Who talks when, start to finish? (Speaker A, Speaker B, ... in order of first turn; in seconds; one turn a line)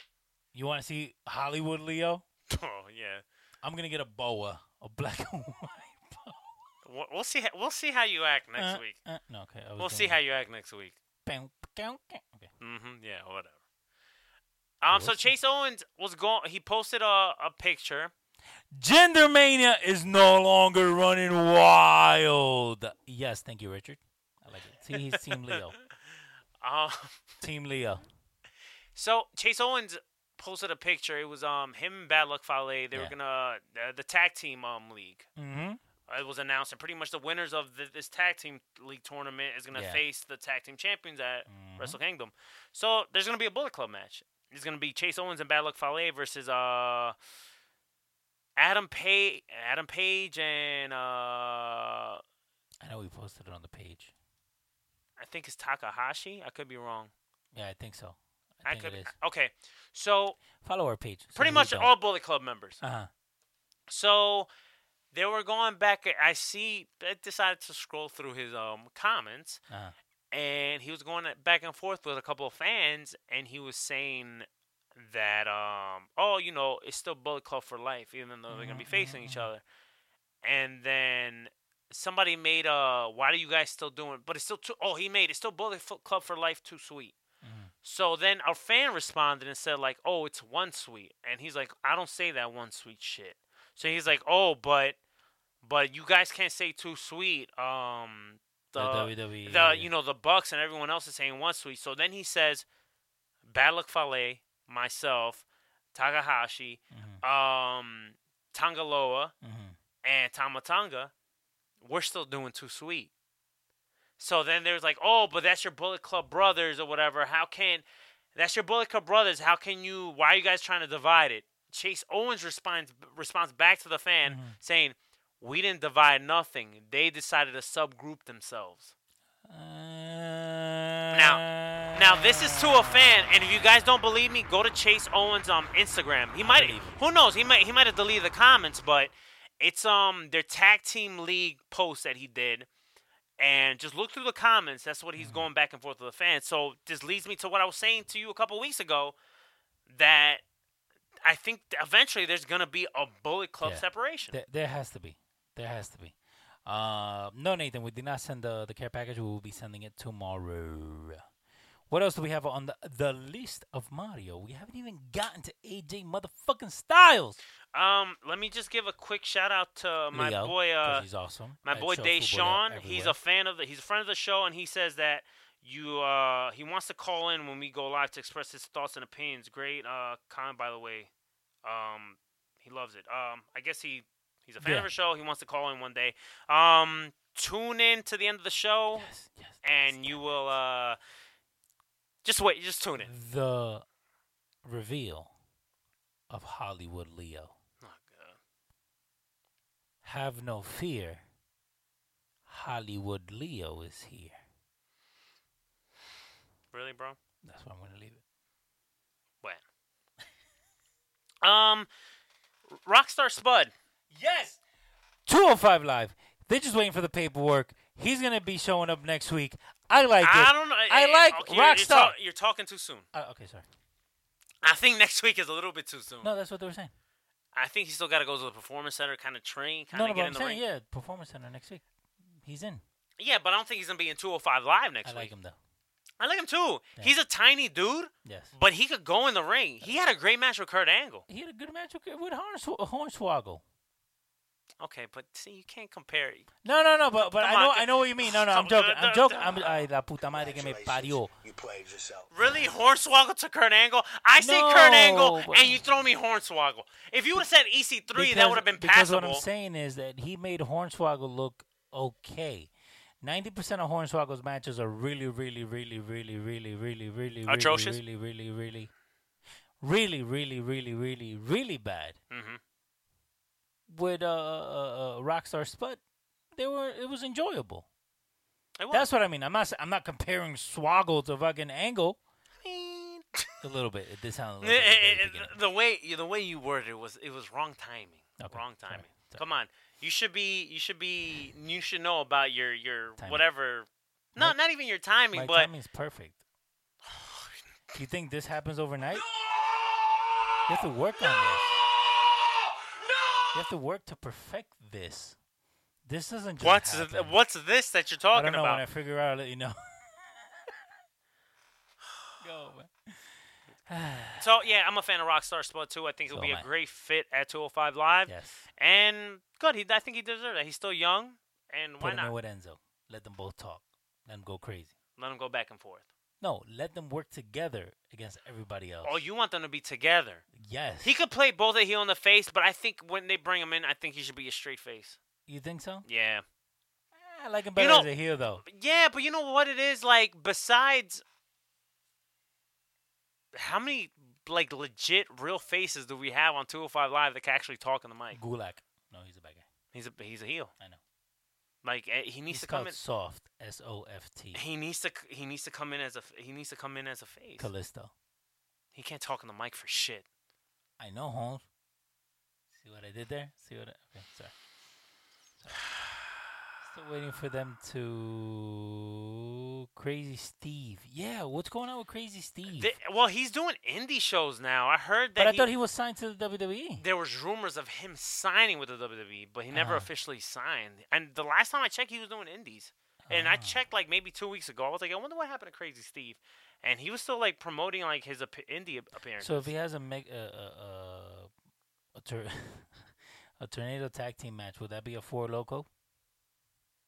Speaker A: 0.5-2.2
Speaker B: 2.5-3.2
Speaker A: 3.6-6.5
Speaker B: 6.8-9.0
Speaker A: 8.6-10.2
Speaker B: 9.8-10.9
Speaker A: 11.2-12.5
Speaker B: 12.6-13.6
Speaker B: 14.8-18.1
Speaker A: 14.9-15.3
Speaker A: 18.7-25.8
Speaker B: 25.1-25.6
Speaker B: 26.6-27.2
Speaker A: 27.4-28.0
Speaker B: 28.9-35.3
Speaker A: 35.4-35.8
Speaker B: 36.1-47.2
Speaker A: 39.7-40.0
Speaker A: 41.5-42.0
Speaker B: 48.6-52.2
Speaker A: 52.8-54.1
Speaker B: 55.2-57.1
Speaker A: 57.5-59.1
Speaker B: 58.6-60.4
Speaker A: 60.6-62.0
Speaker B: 61.4-62.8
Speaker A: 62.8-63.1
Speaker B: 63.9-64.5
Speaker B: 65.1-69.6
Speaker A: 69.7-70.0
Speaker B: 70.3-79.6
Speaker A: 78.5-79.5
Speaker B: 80.4-87.2
Speaker A: 87.4-87.7
Speaker B: 87.8-95.0
Speaker B: 95.6-102.7
Speaker A: 98.8-99.9
Speaker B: 103.5-109.3
Speaker A: 106.9-107.2
Speaker A: 109.4-109.8
Speaker B: 110.0-111.1
Speaker B: 111.8-113.1
Speaker B: 114.2-128.9
Speaker A: 124.2-124.6
Speaker A: 129.5-133.9
Speaker B: 131.1-142.7
Speaker A: 136.4-137.0
Speaker B: 143.4-149.2
Speaker A: 145.2-145.5
Speaker B: 149.9-150.4
Speaker B: 151.2-154.4
Speaker A: 153.6-161.2
Speaker A: 161.9-167.4
Speaker B: 167.7-171.1
Speaker A: 170.1-173.2
Speaker B: 171.6-181.1
Speaker B: 181.6-189.1
Speaker A: 184.6-184.9
Speaker A: 188.9-190.3
Speaker B: 189.6-191.0
Speaker B: 192.2-193.1
Speaker A: 193.0-193.8
Speaker A: 194.6-195.3
Speaker A: 196.3-197.5
Speaker B: 197.8-198.4
Speaker A: 200.0-201.2
Speaker A: 202.5-204.4
Speaker B: 206.7-207.2
Speaker A: 207.4-208.2
Speaker B: 211.4-211.9
Speaker B: 212.7-213.7
Speaker A: 214.1-214.6
Speaker A: 215.3-222.2
Speaker B: 220.2-223.1
Speaker A: 223.1-223.7
Speaker B: 224.6-226.3
Speaker A: 226.2-226.9
Speaker B: 227.6-230.6
Speaker A: 229.9-231.8
Speaker A: 232.4-232.8
Speaker B: 233.2-235.3
Speaker A: 235.1-235.6
Speaker B: 236.2-241.2
Speaker A: 238.2-238.5
Speaker A: 239.8-240.1
Speaker A: 241.3-243.6
Speaker B: 244.8-246.5
Speaker A: 246.6-251.3
Speaker B: 247.3-249.9
Speaker C: 250.3-252.4
Speaker B: 252.3-259.4
Speaker A: 254.3-255.8
Speaker A: 258.1-262.7
Speaker A: 263.2-268.9
Speaker B: 267.5-268.0
Speaker A: 269.8-272.2
Speaker B: 272.3-272.6
Speaker A: 273.9-276.0
Speaker A: 276.6-277.9
Speaker B: 278.8-279.1
Speaker A: 278.9-282.2
Speaker B: 282.6-283.5
Speaker A: 283.6-285.6
Speaker B: 284.6-295.7
Speaker A: 288.4-289.4
Speaker A: 293.2-293.4
Speaker A: 295.3-296.4
Speaker B: 297.1-297.5
Speaker A: 297.9-299.2
Speaker C: 299.1-303.7
Speaker A: 300.7-301.8
Speaker A: 303.5-305.4
Speaker A: 306.1-307.4
Speaker B: 306.6-308.8
Speaker A: 308.3-310.7
Speaker A: 312.4-313.3
Speaker A: 313.9-314.5
Speaker B: 314.4-322.3
Speaker A: 316.3-316.7
Speaker A: 318.3-318.6
Speaker A: 322.0-324.9
Speaker B: 325.2-326.1
Speaker A: 326.4-329.2
Speaker B: 329.0-330.4
Speaker A: 330.5-331.2
Speaker B: 331.0-335.2
Speaker A: 335.5-336.1
Speaker B: 336.1-336.4
Speaker A: 337.1-338.6
Speaker B: 337.8-338.1
Speaker B: 338.6-341.2
Speaker B: 343.5-348.4
Speaker A: 348.3-349.7
Speaker B: 349.9-350.7
Speaker B: 351.8-353.0
Speaker A: 352.5-354.6
Speaker B: 354.5-357.7
Speaker A: 357.6-358.1
Speaker B: 358.9-360.3
Speaker A: 361.0-361.7
Speaker A: 362.7-364.5
Speaker A: 366.8-372.9
Speaker B: 372.7-375.7
Speaker A: 375.4-377.0
Speaker B: 377.0-389.7
Speaker A: 379.7-380.1
Speaker A: 383.3-383.8
Speaker A: 389.4-391.5
Speaker A: 392.1-393.1
Speaker A: 393.6-395.9